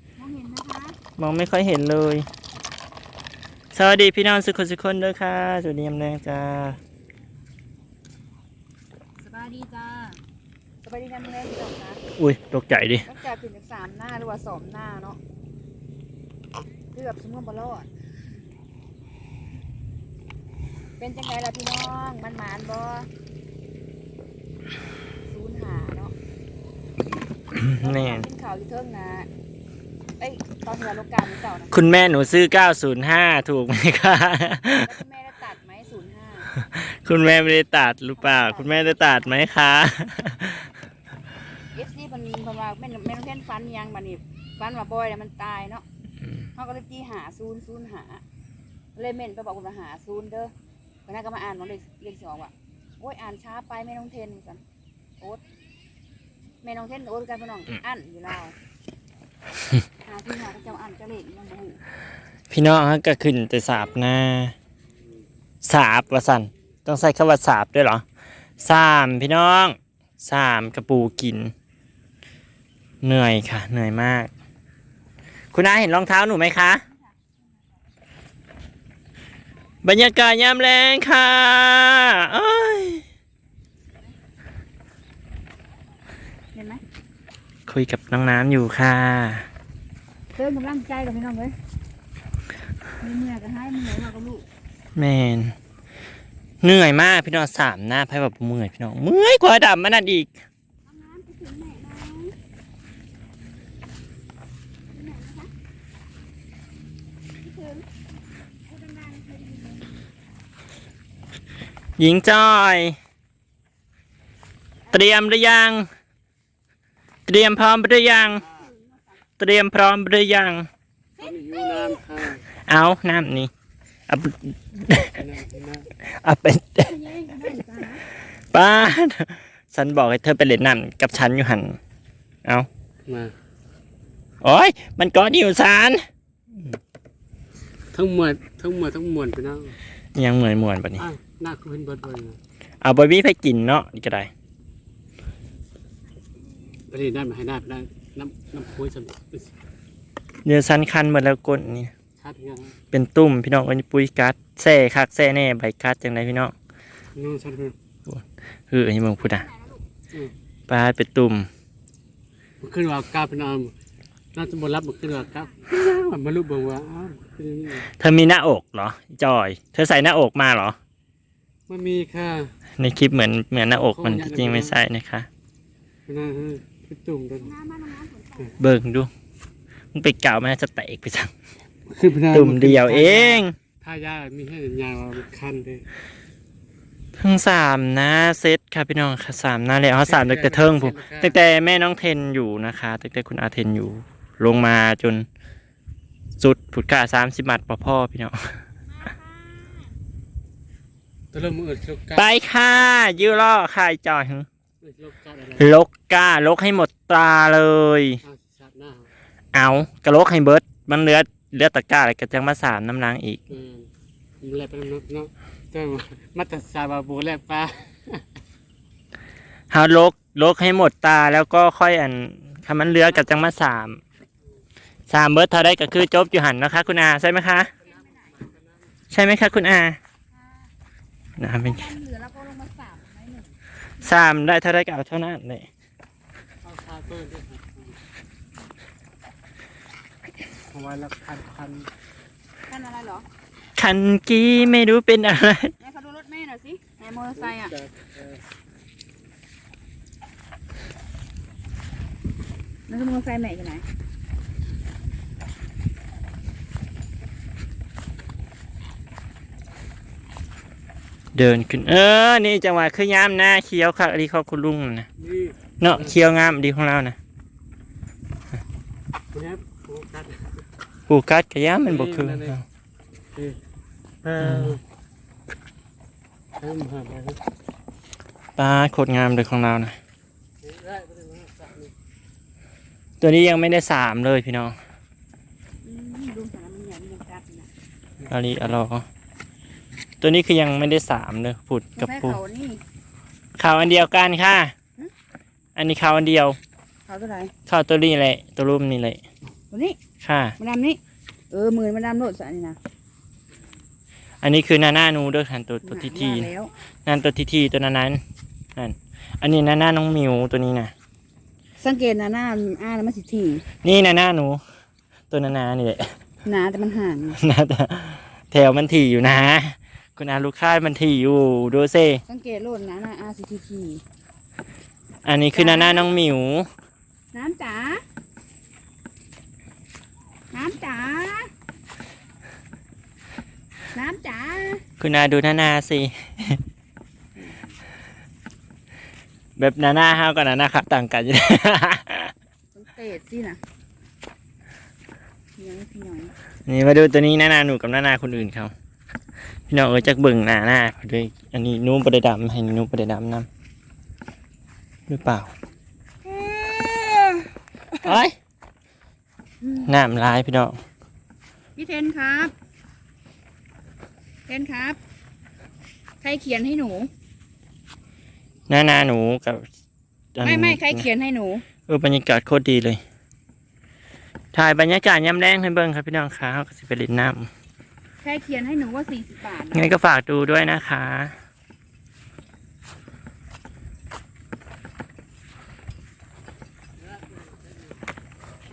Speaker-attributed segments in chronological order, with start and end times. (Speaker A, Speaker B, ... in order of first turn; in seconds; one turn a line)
Speaker A: 0.2-1.0
Speaker B: 1.2-2.2
Speaker B: 3.7-6.8
Speaker A: 9.2-10.2
Speaker A: 10.8-12.0
Speaker B: 12.2-13.1
Speaker A: 13.1-15.2
Speaker A: 16.9-17.9
Speaker A: 21.0-23.1
Speaker A: 25.3-26.1
Speaker B: 27.5-28.2
Speaker A: 27.6-29.3
Speaker A: 30.2-31.7
Speaker B: 31.7-34.9
Speaker A: 34.8-36.5
Speaker B: 36.5-40.7
Speaker A: 38.2-39.4
Speaker A: 41.7-45.8
Speaker A: 46.6-48.2
Speaker A: 49.0-50.5
Speaker A: 51.1-54.6
Speaker A: 56.6-58.5
Speaker A: 60.0-61.8
Speaker B: 62.5-64.5
Speaker B: 65.6-68.0
Speaker B: 68.6-71.5
Speaker B: 73.0-74.3
Speaker B: 75.5-76.8
Speaker B: 79.8-83.0
Speaker A: 86.5-86.8
Speaker B: 87.7-89.5
Speaker A: 90.3-91.6
Speaker A: 93.0-94.5
Speaker B: 95.0-95.5
Speaker B: 96.6-100.3
Speaker A: 100.9-102.3
Speaker A: 104.9-105.5
Speaker A: 107.4-107.9
Speaker A: 108.7-110.0
Speaker B: 112.0-113.0
Speaker A: 114.9-115.2
Speaker B: 114.9-115.9
Speaker B: 117.3-118.5
Speaker A: 118.3-119.0
Speaker B: 119.4-120.7
Speaker C: 121.2-122.4
Speaker A: 121.2-122.0
Speaker B: 122.7-123.5
Speaker B: 124.1-125.2
Speaker C: 125.2-125.9
Speaker B: 126.0-126.9
Speaker A: 126.8-128.0
Speaker B: 128.5-131.8
Speaker C: 133.1-133.3
Speaker B: 134.4-136.0
Speaker C: 137.9-139.8
Speaker B: 140.2-141.1
Speaker C: 141.0-142.4
Speaker B: 142.8-144.3
Speaker C: 146.9-149.5
Speaker B: 150.4-151.9
Speaker C: 152.2-152.8
Speaker B: 152.9-156.5
Speaker C: 157.2-157.8
Speaker B: 158.1-159.5
Speaker A: 159.5-159.8
Speaker B: 160.7-161.5
Speaker C: 162.6-163.7
Speaker C: 164.3-167.9
Speaker B: 167.9-170.8
Speaker C: 171.7-172.5
Speaker B: 172.8-175.3
Speaker C: 173.8-174.8
Speaker C: 176.1-177.5
Speaker A: 177.4-178.6
Speaker B: 178.6-179.1
Speaker B: 179.9-181.3
Speaker C: 181.9-185.9
Speaker B: 182.3-183.6
Speaker B: 187.2-195.3
Speaker C: 190.0-191.4
Speaker B: 196.4-198.5
Speaker A: 199.1-199.7
Speaker C: 201.3-202.3
Speaker B: 202.2-204.5
Speaker C: 204.8-205.7
Speaker B: 205.6-208.2
Speaker C: 208.2-209.1
Speaker B: 209.5-213.4
Speaker C: 213.5-213.9
Speaker C: 214.4-218.2
Speaker B: 219.7-224.0
Speaker B: 225.1-227.7
Speaker A: 227.7-228.4
Speaker C: 227.8-228.9
Speaker B: 229.1-230.0
Speaker B: 231.4-231.9
Speaker A: 231.6-234.0
Speaker B: 234.0-235.7
Speaker C: 236.6-238.0
Speaker C: 240.7-241.9
Speaker A: 242.7-243.3
Speaker B: 243.8-245.7
Speaker A: 245.8-247.8
Speaker C: 247.4-248.4
Speaker A: 252.9-253.8
Speaker B: 261.4-265.1
Speaker C: 265.2-266.2
Speaker B: 265.8-267.2
Speaker C: 269.3-270.4
Speaker B: 271.1-272.6
Speaker C: 271.9-272.6
Speaker C: 274.2-274.8
Speaker B: 274.4-274.8
Speaker C: 276.6-277.4
Speaker B: 278.6-280.0
Speaker C: 280.6-281.9
Speaker B: 283.2-284.8
Speaker A: 285.9-287.7
Speaker B: 288.3-289.1
Speaker B: 290.2-292.4
Speaker A: 292.0-292.8
Speaker B: 293.6-294.7
Speaker B: 295.8-296.6
Speaker A: 297.1-297.5
Speaker B: 297.7-299.2
Speaker A: 299.7-300.0
Speaker B: 300.2-300.6
Speaker A: 300.6-302.8
Speaker B: 304.4-306.5
Speaker A: 305.8-306.7
Speaker B: 307.1-308.2
Speaker B: 308.8-310.9
Speaker A: 311.8-313.7
Speaker B: 313.8-314.6
Speaker B: 315.3-316.1
Speaker A: 316.4-317.4
Speaker B: 317.4-322.2
Speaker A: 322.3-324.0
Speaker B: 325.2-326.7
Speaker A: 325.5-326.1
Speaker A: 327.3-328.0
Speaker A: 330.5-331.5
Speaker A: 333.9-334.8
Speaker B: 335.0-336.6
Speaker B: 339.6-342.3
Speaker A: 342.7-343.6
Speaker A: 345.6-346.3
Speaker B: 346.7-348.7
Speaker B: 349.7-353.5
Speaker B: 355.1-355.5
Speaker A: 356.2-358.2
Speaker B: 358.0-358.4
Speaker A: 359.6-359.9
Speaker B: 359.9-360.8
Speaker A: 361.8-362.5
Speaker A: 364.5-365.0
Speaker A: 366.2-367.1
Speaker B: 368.7-369.6
Speaker B: 370.4-371.1
Speaker A: 370.4-371.7
Speaker B: 371.9-373.0
Speaker B: 374.5-377.5
Speaker A: 378.2-380.0
Speaker B: 379.7-381.3
Speaker C: 387.1-387.8